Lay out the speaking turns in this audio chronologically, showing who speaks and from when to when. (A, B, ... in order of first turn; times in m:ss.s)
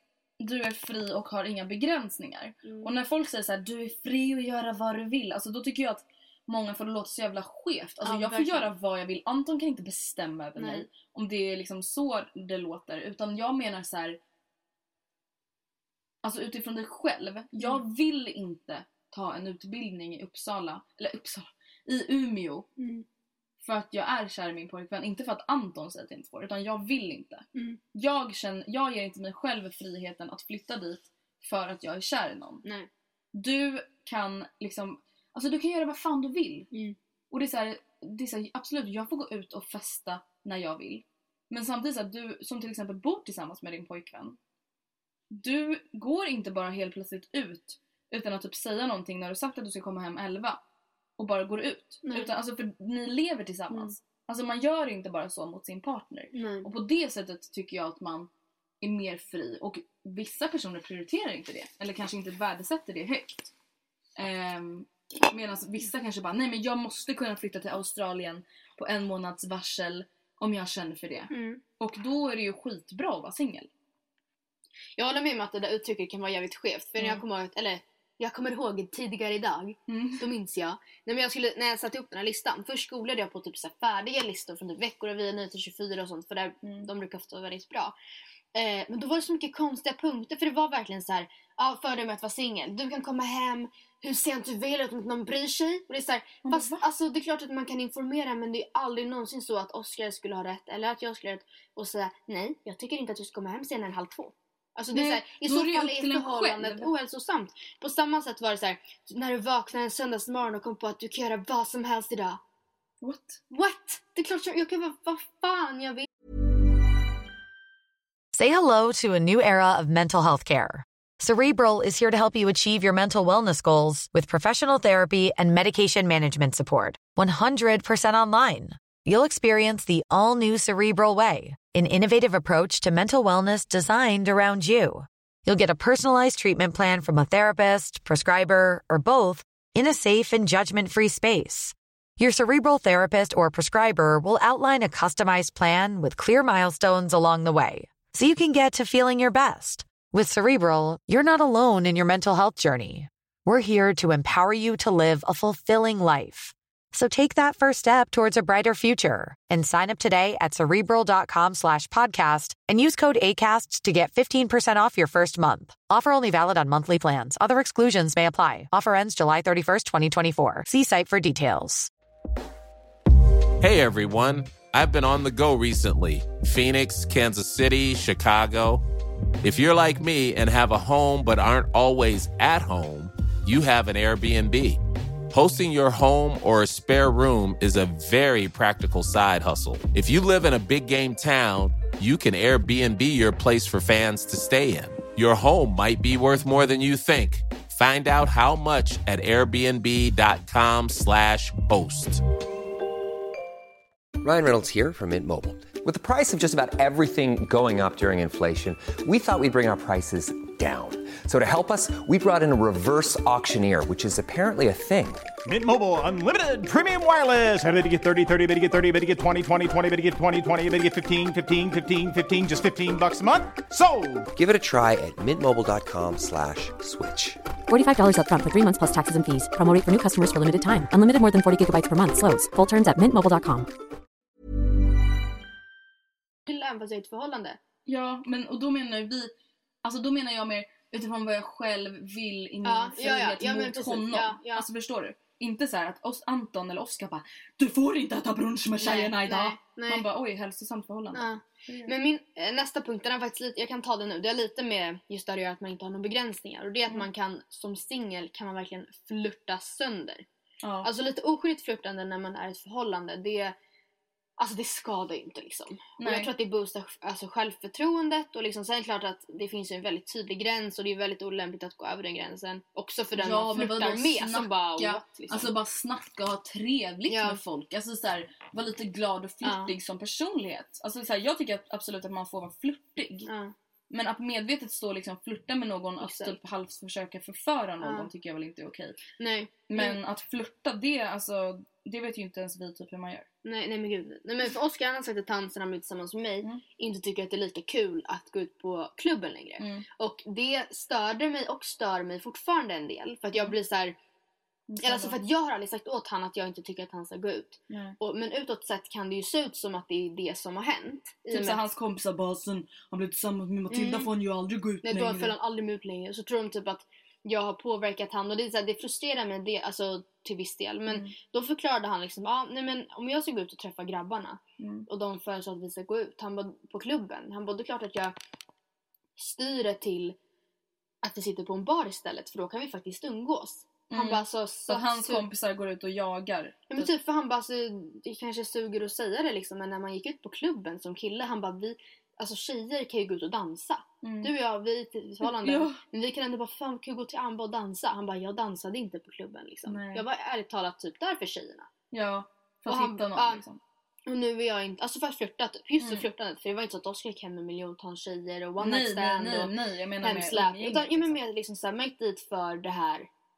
0:00.4-0:14.2 A
0:02.6-0:02.9 B
0:08.0-0:08.7 B
0:10.6-0:10.8 B
0:16.2-0:22.7 A
0:22.8-0:23.0 B
0:23.6-0:32.6 A
0:27.5-0:27.8 B
0:32.6-0:32.9 B
0:33.3-0:36.7 A
0:36.7-0:37.0 B
0:37.3-0:44.4 A
0:45.3-0:50.6 A
0:51.2-0:58.3 A
0:52.0-0:52.3 B
0:53.7-0:54.0 B
0:56.3-0:56.7 B
0:58.8-1:03.5 A
1:04.2-1:13.7 A
1:11.3-1:11.6 B
1:15.0-1:28.0 B
1:17.0-1:17.2 A
1:19.9-1:20.3 A
1:26.6-1:26.9 A
1:28.5-1:52.4 B
1:36.4-1:36.8 A
1:44.9-1:46.9 A
1:53.0-1:53.4 A
1:53.5-1:56.1 B
1:58.3-2:51.9 C
2:53.6-2:58.8 D
2:59.4-3:22.2 D
3:24.2-3:35.2 E
3:35.4-3:44.3 F
3:44.4-3:47.4 E
3:47.7-3:53.7 G
3:56.4-3:57.6 B
3:57.9-4:11.9 A
4:02.6-4:04.6 B
4:08.8-4:10.1 B
4:11.1-4:20.2 B
4:20.6-4:20.9 A
4:20.8-4:23.6 B
4:24.4-4:35.5 B
4:26.0-4:26.3 A
4:33.2-4:43.3 A
4:37.1-4:37.4 B
4:39.4-4:39.7 B
4:43.2-4:43.5 B
4:43.9-4:49.0 A
4:46.0-4:46.4 B
4:47.8-4:48.1 B
4:49.2-4:50.0 B
4:49.7-4:53.3 A
4:53.4-5:04.0 B
4:59.6-4:59.8 A
5:04.7-5:05.2 A
5:04.8-5:11.6 B
5:07.7-5:08.0 A
5:11.3-5:15.3 A
5:13.7-5:14.1 B
5:14.8-5:28.1 B
5:20.9-5:21.1 A
5:24.6-5:24.9 A
5:29.2-5:30.2 B
5:31.0-5:35.3 B
5:33.9-5:36.9 A
5:36.7-5:51.7 B
5:44.0-5:44.3 A
5:45.2-5:45.8 A
5:49.6-5:50.0 A
5:51.9-5:53.6 A
5:52.6-5:53.4 B
5:54.0-6:03.1 B
5:55.8-5:56.0 A
5:58.6-6:01.1 A